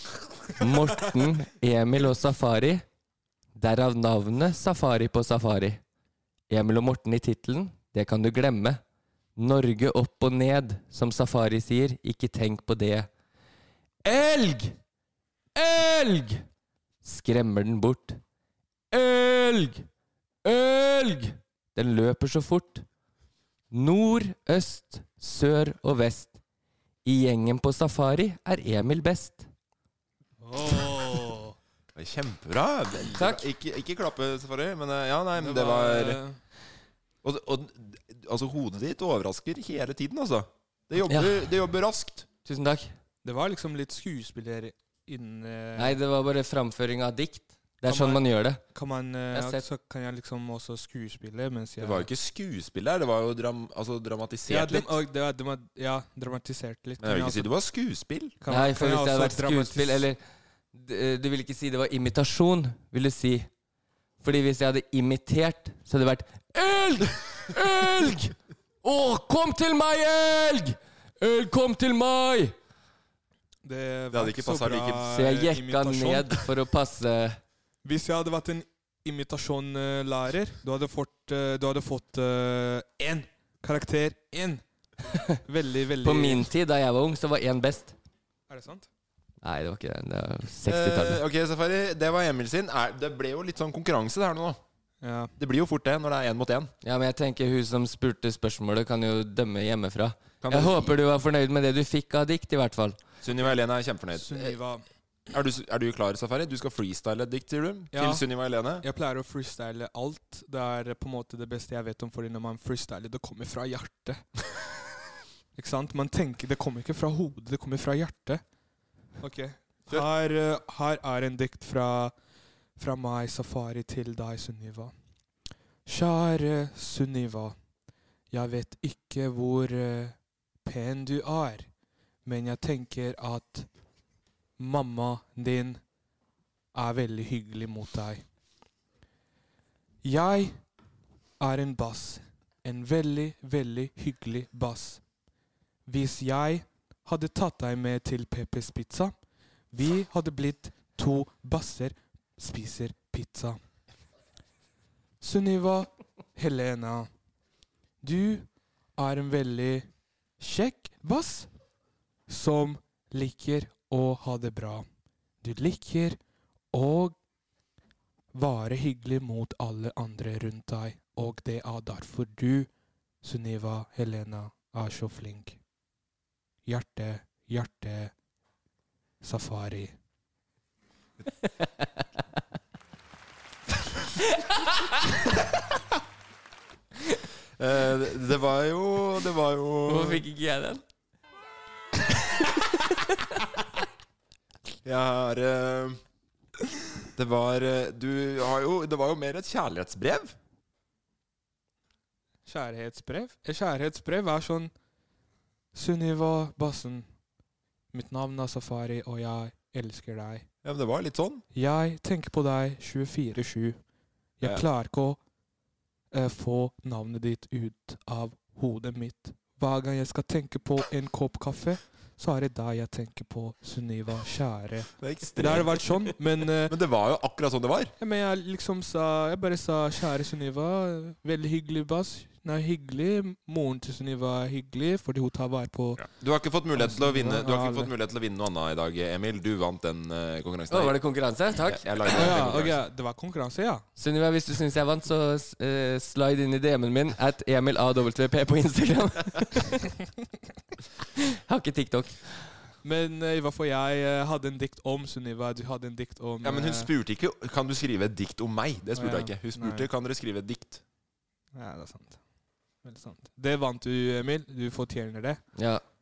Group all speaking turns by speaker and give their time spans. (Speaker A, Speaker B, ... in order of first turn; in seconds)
Speaker A: 0.5-2.8, 3.5-5.8, 6.5-8.8, 9.4-13.1, 14.0-14.8, 15.5-16.4, 17.0-18.2, 18.9-19.9, 20.4-22.8, 23.7-26.4, 27.0-29.5, 33.1-33.5, 41.0-41.5, 42.5-42.9, 45.8-48.6, 49.3-49.6, 58.5-60.2, 60.7-63.5, 64.2-72.5, 75.1-77.4, 86.0-87.9, 89.4-91.2, 96.8-103.0, 184.4-184.8, 189.9-190.8, 240.7-242.6, 243.9-249.9, 251.4-252.7, 265.6-265.8
Speaker B: 30.4-31.6, 35.4-36.4, 43.2-46.0, 47.8-52.1, 54.5-57.5, 58.4-60.1, 73.6-76.4, 77.8-84.6, 85.5-86.5, 88.5-88.9, 95.0-95.3, 104.1-104.8, 107.9-108.2, 108.8-114.2, 115.5-118.4, 119.2-122.1, 122.8-124.9, 125.8-127.5, 128.3-131.7, 132.2-133.7, 134.6-135.8, 136.7-138.2, 140.0-140.6, 141.4-145.0, 145.8-149.1, 149.7-153.6, 155.2-157.1, 158.0-159.9, 160.4-161.5, 162.3-164.8, 165.4-166.2, 166.7-167.2, 168.3-172.7, 173.2-175.6, 176.7-178.1, 179.2-179.9, 202.4-204.7, 205.7-207.1, 207.9-210.4, 211.5-213.8, 214.4-215.2, 216.1-226.7, 228.0-236.1, 236.7-237.9, 242.1-243.8, 252.8-256.9, 258.9-259.9, 261.5-262.2, 262.8-265.4
Speaker C: 31.9-36.2, 37.2-42.3, 51.8-54.9, 57.0-58.4, 74.1-75.1, 90.7-94.6, 95.4-96.7, 100.4-100.9, 103.2-104.5, 105.3-108.8, 187.6-190.2, 194.8-196.0, 197.1-200.3, 210.6-211.4, 225.0-226.1, 226.7-227.9, 236.0-241.0, 241.6-242.8, 256.4-260.8